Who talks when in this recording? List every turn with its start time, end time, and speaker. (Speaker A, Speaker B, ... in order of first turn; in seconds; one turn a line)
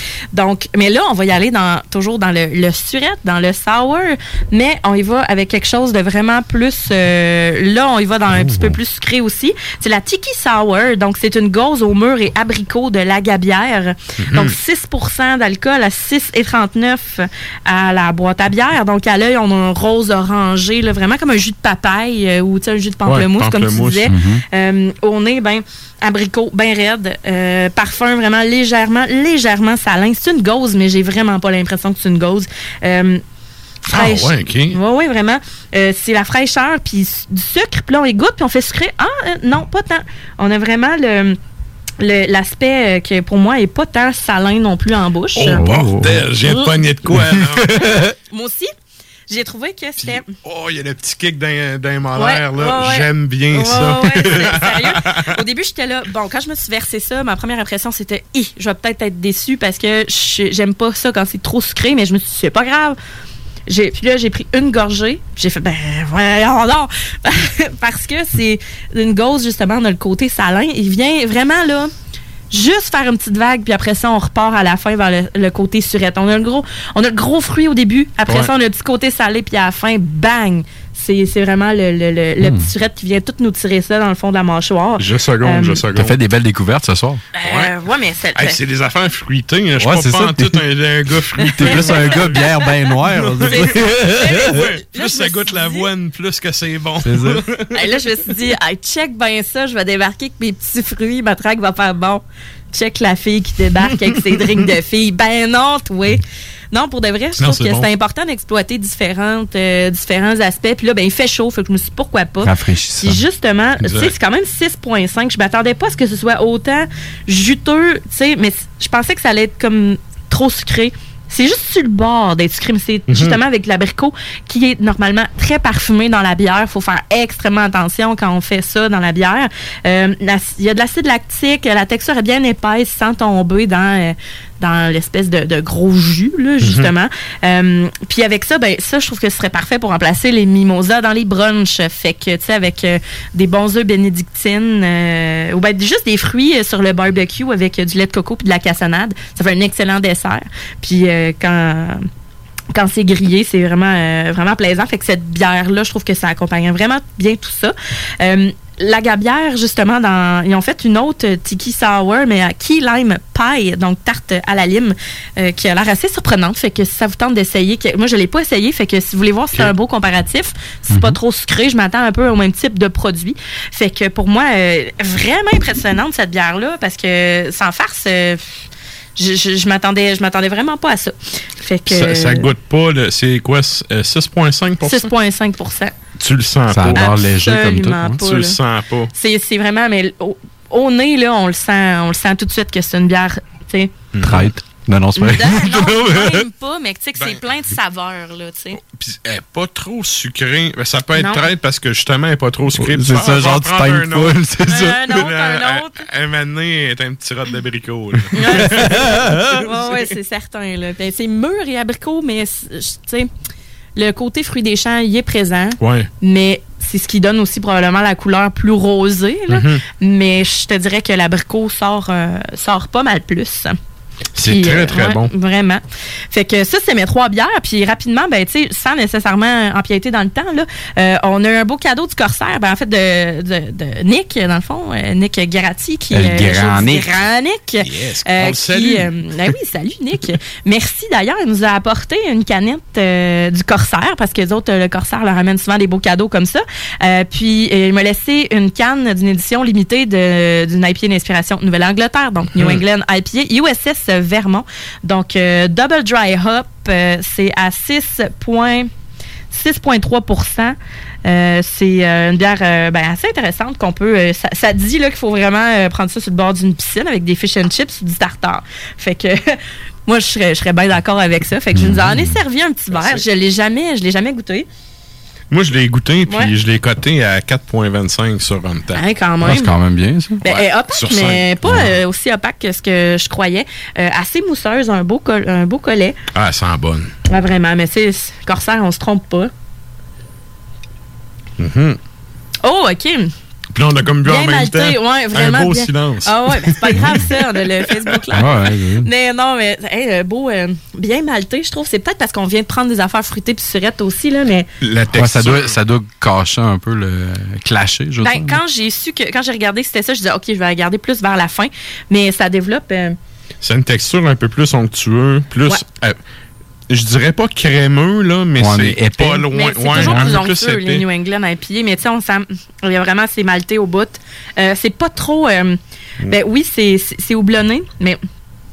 Speaker A: 0.3-33.2
Speaker B: 14.2-14.6
Speaker B: 23.1-24.1
Speaker C: 24.1-24.4
Speaker B: 33.9-34.8
Speaker A: 33.9-41.4
Speaker A: 42.0-45.6
Speaker B: 45.4-47.9
Speaker C: 45.5-46.2
Speaker A: 46.5-46.7
Speaker C: 47.1-48.1
Speaker A: 48.3-48.7
Speaker A: 49.3-50.3
Speaker B: 50.0-55.3
Speaker A: 52.2-63.0
Speaker A: 63.7-71.9
Speaker A: 72.5-85.8
Speaker C: 82.4-82.7
Speaker B: 85.0-86.2
Speaker C: 85.9-87.2
Speaker A: 87.3-88.6
Speaker B: 87.4-87.7
Speaker B: 88.4-92.5
Speaker C: 89.8-90.6
Speaker C: 91.5-94.7
Speaker A: 91.6-92.4
Speaker B: 93.3-97.7
Speaker A: 94.9-95.9
Speaker C: 97.0-97.4
Speaker A: 97.7-106.2
Speaker A: 106.7-152.0
Speaker B: 107.4-107.9
Speaker C: 112.4-113.2
Speaker B: 113.8-114.1
Speaker B: 123.1-123.4
Speaker B: 136.6-136.9
Speaker A: 152.8-178.4
Speaker C: 170.9-171.2
Speaker A: 179.2-182.5
Speaker B: 181.9-185.1
Speaker A: 184.8-185.9
Speaker B: 186.2-187.1
Speaker C: 186.7-188.2
Speaker A: 186.9-188.6
Speaker B: 188.2-189.1
Speaker A: 189.1-193.9
Speaker B: 194.1-194.5
Speaker C: 194.2-195.8
Speaker A: 195.2-198.8
Speaker B: 198.8-210.0
Speaker A: 201.2-201.5
Speaker C: 202.8-205.0
Speaker A: 204.7-206.0
Speaker A: 208.4-209.0
Speaker C: 208.5-209.6
Speaker A: 209.6-213.3
Speaker A: 214.0-223.7
Speaker B: 215.8-216.1
Speaker B: 219.5-219.8
Speaker B: 224.4-225.3
Speaker A: 224.4-258.9
Speaker C: 236.1-237.1
Speaker B: 237.8-239.1
Speaker B: 252.6-252.8
Speaker A: 259.5-269.5
Speaker A: 270.1-274.7
Speaker C: 271.7-272.4
Speaker B: 272.9-273.2
Speaker B: 275.5-279.0
Speaker A: 278.9-279.7
Speaker C: 279.4-280.4
Speaker A: 280.4-286.2
Speaker B: 280.5-281.5
Speaker C: 281.7-281.9
Speaker B: 286.3-287.1
Speaker A: 287.3-289.5
Speaker B: 291.6-292.0
Speaker A: 292.6-293.3
Speaker B: 293.7-297.1
Speaker A: 294.3-298.5
Speaker C: 298.3-299.1
Speaker A: 299.0-304.7
Speaker B: 304.8-305.8
Speaker C: 305.1-308.6
Speaker A: 308.2-313.2
Speaker B: 313.6-316.2
Speaker B: 316.9-321.0
Speaker C: 318.6-320.4
Speaker A: 319.5-325.8
Speaker A: 326.3-328.2